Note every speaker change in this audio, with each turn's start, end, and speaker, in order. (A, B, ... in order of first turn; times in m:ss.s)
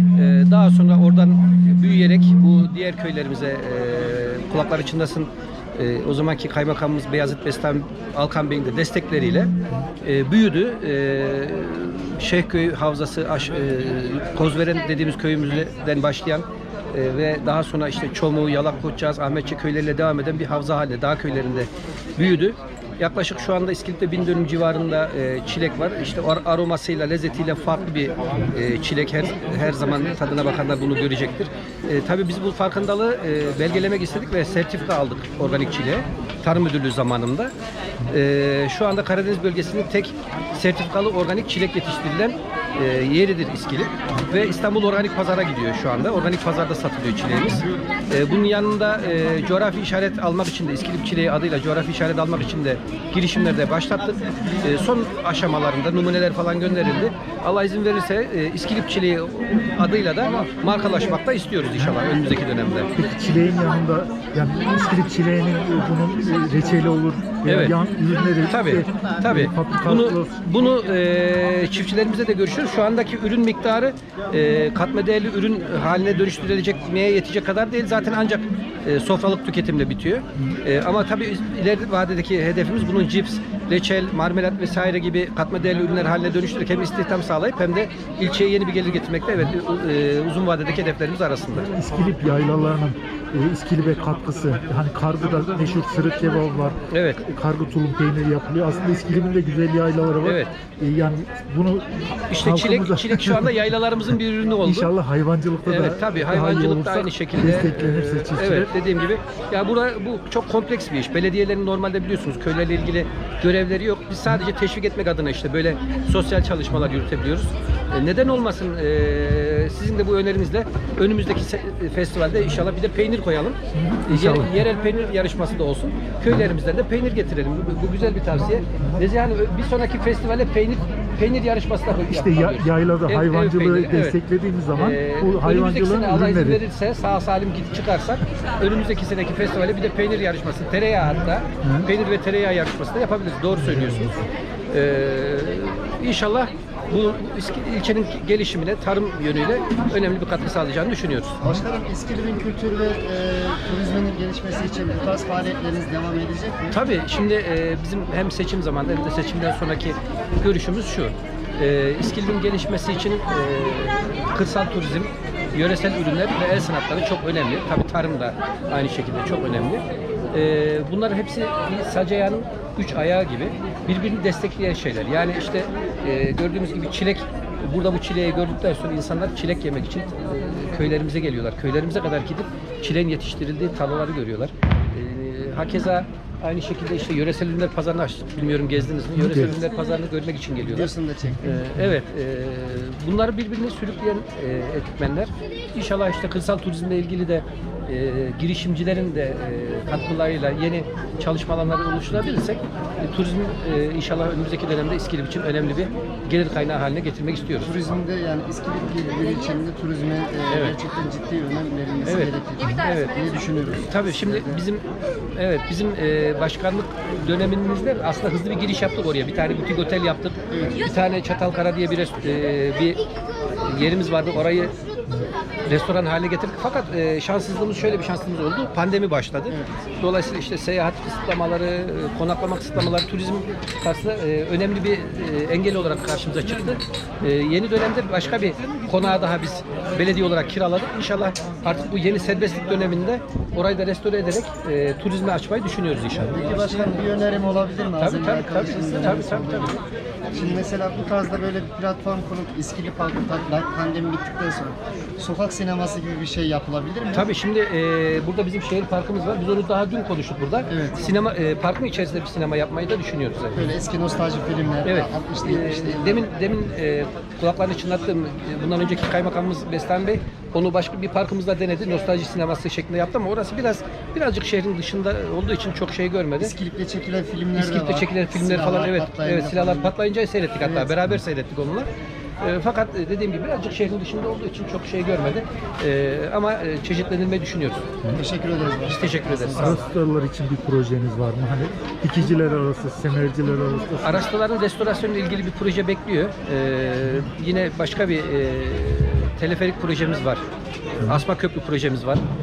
0:00.2-0:37.5 A
0:38.1-1:02.9 A
1:03.0-1:10.4 B
1:07.4-1:07.8 A
1:08.5-1:31.7 A
1:31.6-1:48.7 B
1:36.9-1:37.2 A
1:40.2-1:40.5 A
1:42.3-1:44.9 A
1:45.6-2:14.2 A
2:03.7-2:04.7 B
2:12.1-2:16.6 B
2:14.7-2:24.1 A
2:21.6-2:21.9 B
2:23.5-2:24.3 B
2:24.7-2:31.3 A
2:31.4-2:36.8 C
2:36.7-3:27.7 A
3:09.1-3:09.6 B
3:10.6-3:11.4 C
3:11.2-3:11.9 B
3:27.6-3:34.6 C
3:30.5-3:30.8 A
3:32.0-3:33.2 A
3:33.8-3:34.8 A
3:35.4-3:43.0 A
3:40.5-3:40.8 C
3:43.6-3:44.7 A
3:45.6-4:06.9 A
4:06.2-4:09.8 C
4:08.0-4:09.8 A
4:10.3-4:17.3 C
4:17.1-4:23.7 A
4:20.7-4:21.0 C
4:23.5-4:26.2 C
4:24.8-4:36.5 A
4:36.4-4:39.9 C
4:37.6-4:41.9 A
4:40.6-4:40.9 C
4:42.4-4:47.8 A
4:48.2-4:49.8 C
4:48.8-4:49.8 A
4:49.5-4:54.3 B
4:54.0-5:00.4 A
5:01.0-5:02.2 A